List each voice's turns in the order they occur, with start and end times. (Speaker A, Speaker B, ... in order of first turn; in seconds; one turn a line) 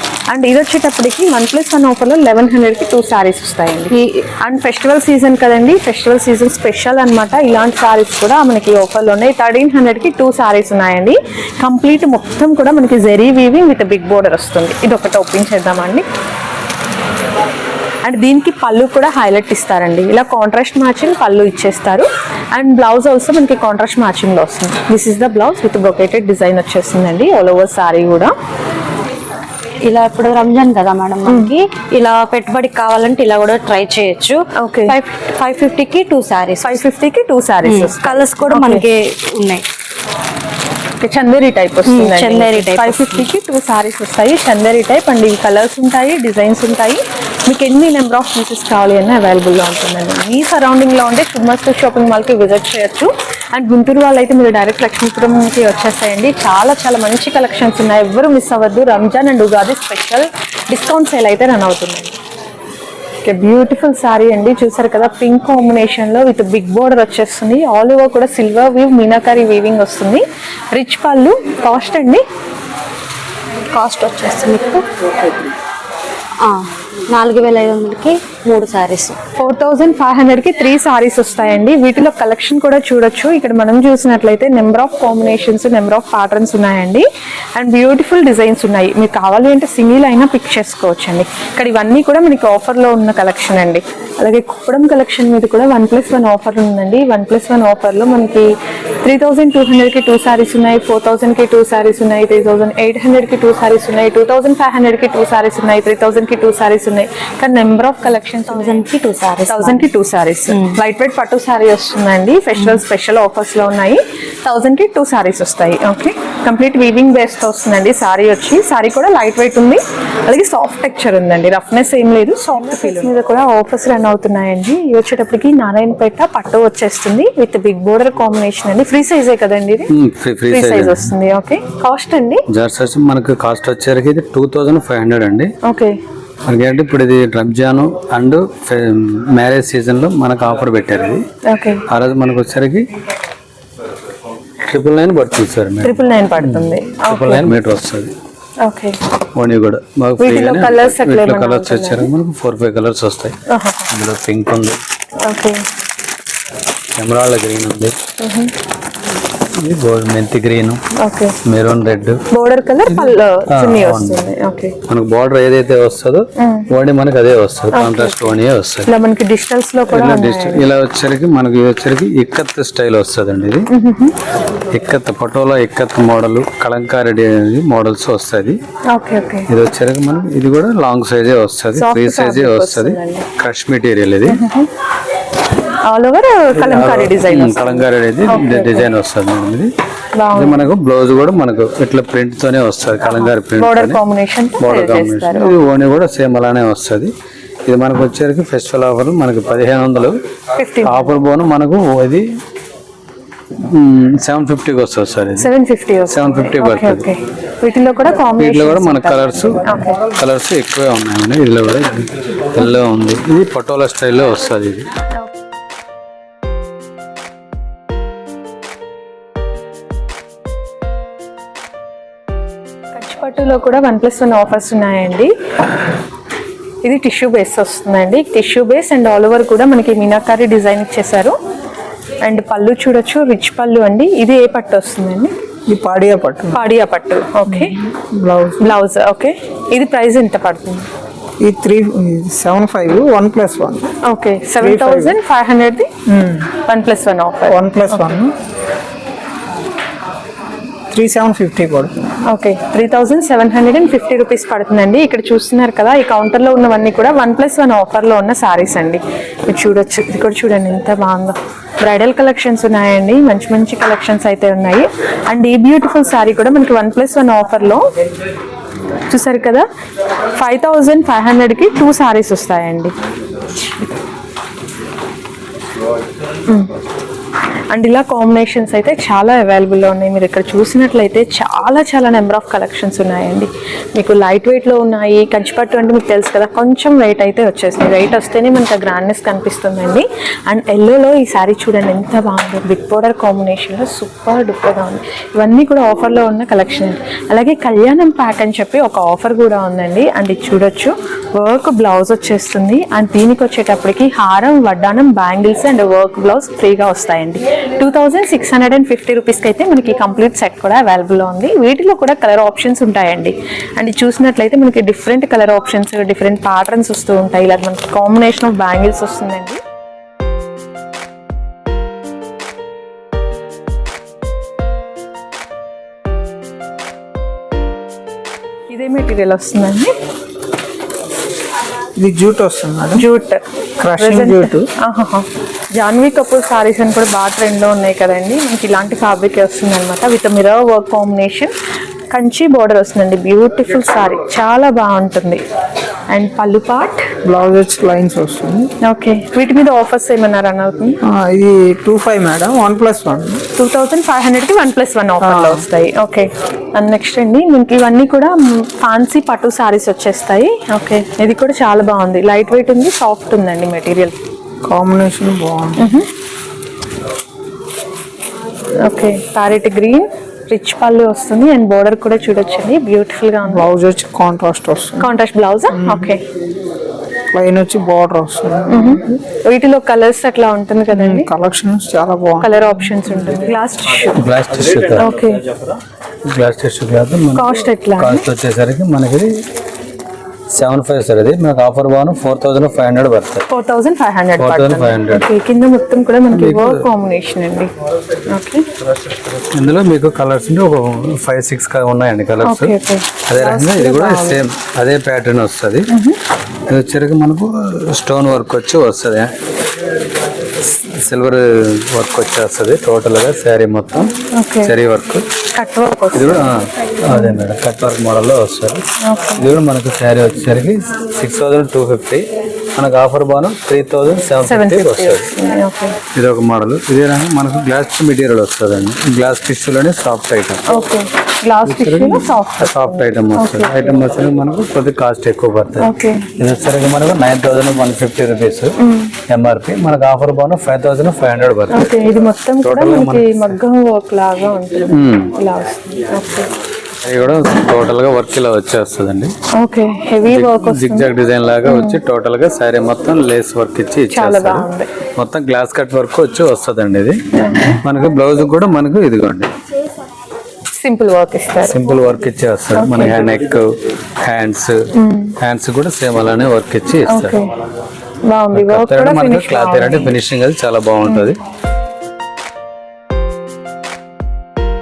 Speaker A: 0.3-16.0
Speaker B: 3.9-4.2
Speaker A: 18.0-28.3
Speaker B: 29.8-36.8
Speaker A: 31.3-31.5
Speaker A: 34.6-35.0
Speaker A: 36.6-38.9
Speaker B: 37.6-39.6
Speaker A: 41.0-62.1
Speaker B: 41.8-43.3
Speaker A: 63.2-72.2
Speaker B: 73.7-75.5
Speaker B: 76.4-79.2
Speaker A: 79.4-108.8
Speaker B: 108.5-109.9
Speaker A: 109.5-129.9
Speaker B: 110.5-110.8
Speaker B: 122.7-123.1
Speaker C: 129.9-131.1
Speaker A: 130.5-132.4
Speaker C: 132.5-135.5
Speaker A: 135.6-136.0
Speaker C: 136.5-141.2
Speaker A: 141.5-141.8
Speaker C: 141.9-142.9
Speaker C: 144.6-148.1
Speaker A: 145.8-147.5
Speaker A: 148.6-149.0
Speaker C: 149.3-153.4
Speaker A: 150.2-152.1
Speaker A: 153.5-153.8
Speaker C: 153.9-154.8
Speaker A: 155.2-155.6
Speaker C: 156.9-157.9
Speaker A: 158.2-158.5
Speaker C: 159.5-160.8
Speaker A: 161.0-161.3
Speaker C: 161.4-162.2
Speaker A: 162.3-164.7
Speaker C: 162.8-164.3
Speaker C: 164.9-168.9
Speaker A: 166.4-166.7
Speaker A: 167.7-170.6
Speaker C: 169.9-173.7
Speaker A: 173.7-174.1
Speaker C: 174.7-178.6
Speaker A: 178.9-179.5
Speaker C: 179.5-184.4
Speaker A: 181.7-183.3
Speaker A: 184.3-184.7
Speaker A: 185.9-188.9
Speaker C: 186.6-189.7
Speaker A: 190.2-190.7
Speaker C: 190.3-194.0
Speaker A: 193.2-195.6
Speaker C: 194.6-197.1
Speaker C: 197.7-200.2
Speaker A: 200.6-201.1
Speaker C: 200.8-202.3
Speaker C: 203.6-205.5
Speaker A: 205.4-210.0
Speaker C: 206.1-207.1
Speaker C: 208.3-214.9
Speaker A: 222.9-225.3
Speaker A: 226.8-231.3
Speaker A: 232.2-235.3
Speaker D: 235.7-236.6
Speaker A: 236.5-237.8
Speaker D: 237.4-238.7
Speaker A: 238.6-240.9
Speaker D: 241.4-243.9
Speaker A: 244.0-245.9
Speaker D: 244.6-245.2
Speaker D: 246.1-246.5
Speaker A: 246.5-248.2
Speaker D: 247.5-248.3
Speaker D: 250.9-252.0
Speaker A: 252.3-267.8
Speaker A: 269.1-269.7
Speaker A: 270.4-272.9
Speaker A: 277.7-319.6
Speaker A: 328.7-329.9
Speaker D: 332.0-333.1
Speaker A: 332.9-333.4
Speaker D: 333.8-334.7
Speaker A: 334.0-341.5
Speaker A: 342.1-345.4
Speaker A: 346.1-347.1
Speaker D: 347.2-348.7
Speaker A: 348.8-351.0
Speaker D: 351.0-353.4
Speaker A: 353.5-364.1
Speaker D: 355.2-355.6
Speaker D: 364.6-365.8
Speaker A: 365.8-366.1
Speaker A: 368.8-373.7
Speaker D: 373.5-375.1
Speaker A: 375.0-376.2
Speaker D: 375.7-376.1
Speaker D: 377.3-379.2
Speaker A: 378.7-381.3
Speaker D: 380.9-383.4
Speaker A: 382.4-384.2
Speaker C: 384.1-385.1
Speaker A: 385.0-385.4
Speaker C: 386.2-389.4
Speaker A: 387.3-388.3
Speaker C: 390.5-393.4
Speaker A: 393.5-397.7
Speaker C: 394.4-395.3
Speaker C: 396.3-396.8
Speaker A: 398.3-398.6
Speaker C: 399.2-402.8
Speaker A: 402.4-404.4
Speaker C: 403.3-405.9
Speaker A: 405.9-406.2
Speaker C: 406.7-409.3
Speaker C: 410.7-415.2
Speaker A: 414.3-414.7
Speaker A: 415.5-416.6
Speaker C: 416.1-418.8
Speaker A: 417.1-417.4
Speaker A: 419.0-419.5
Speaker C: 419.4-425.3
Speaker A: 424.4-426.0
Speaker C: 426.1-430.6
Speaker A: 430.7-433.9
Speaker C: 431.6-438.7
Speaker A: 435.8-436.3
Speaker A: 438.8-439.1
Speaker C: 439.3-443.6
Speaker A: 441.7-446.5
Speaker C: 444.9-445.3
Speaker C: 447.0-449.3
Speaker A: 449.5-451.1
Speaker C: 450.2-459.5
Speaker A: 451.6-452.0
Speaker A: 454.1-454.9
Speaker A: 457.3-457.8
Speaker A: 460.8-461.8
Speaker C: 461.6-464.8
Speaker A: 462.7-463.2
Speaker A: 464.9-465.4
Speaker C: 465.4-467.5
Speaker A: 467.1-467.5
Speaker A: 468.3-470.1
Speaker C: 468.5-471.4
Speaker A: 471.1-471.3